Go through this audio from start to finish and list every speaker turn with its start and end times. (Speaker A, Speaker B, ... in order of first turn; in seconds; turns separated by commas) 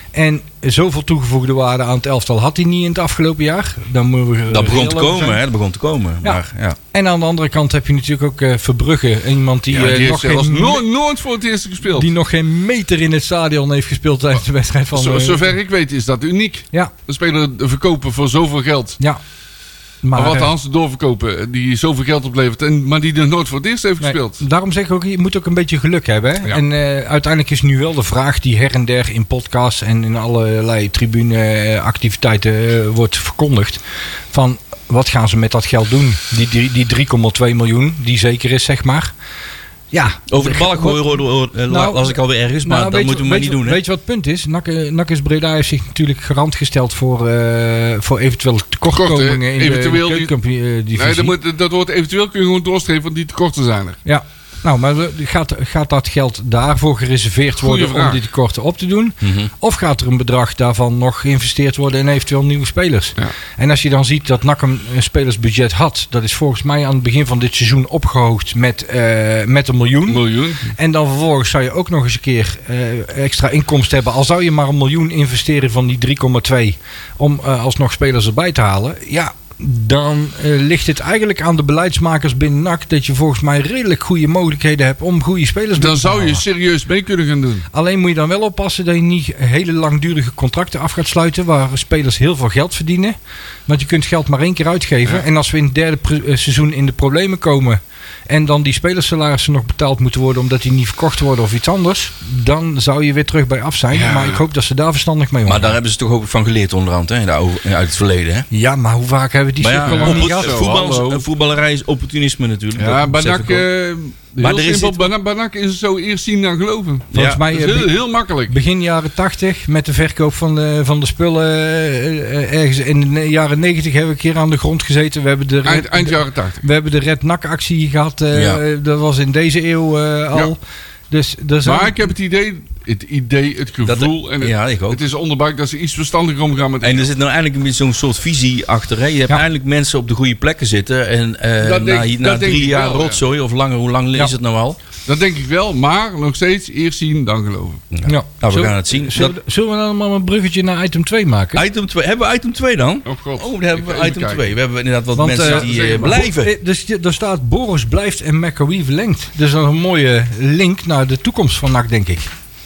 Speaker A: 0.1-5.4, Speaker B: 4.5-6.8, Speaker A: 6.9-10.8, Speaker C: 9.7-12.1, Speaker A: 11.9-15.5, Speaker C: 14.9-19.0, Speaker A: 20.0-20.5, Speaker C: 20.1-24.4, Speaker A: 24.0-33.8, Speaker A: 34.3-39.1, Speaker A: 39.9-41.2, Speaker B: 40.3-43.8, Speaker A: 41.7-51.3, Speaker C: 48.9-50.3, Speaker C: 51.0-54.0, Speaker A: 54.0-86.4, Speaker C: 57.6-58.2, Speaker B: 59.2-59.5, Speaker C: 70.1-70.7, Speaker C: 85.8-87.7, Speaker A: 87.7-105.8, Speaker C: 103.9-104.4, Speaker B: 105.5-108.5, Speaker A: 108.5-110.6, Speaker B: 109.6-113.7, Speaker C: 109.8-111.2, Speaker C: 112.8-118.6, Speaker B: 114.4-115.1, Speaker B: 117.1-117.4, Speaker A: 117.1-132.0, Speaker C: 125.6-126.6, Speaker B: 128.3-128.6, Speaker C: 131.6-137.1, Speaker B: 133.8-135.0, Speaker B: 136.8-144.8, Speaker C: 141.6-143.2, Speaker C: 145.1-147.8, Speaker B: 147.9-149.3, Speaker A: 148.0-151.6, Speaker B: 151.5-156.5, Speaker C: 153.1-154.5, Speaker A: 155.1-162.3, Speaker C: 155.3-156.2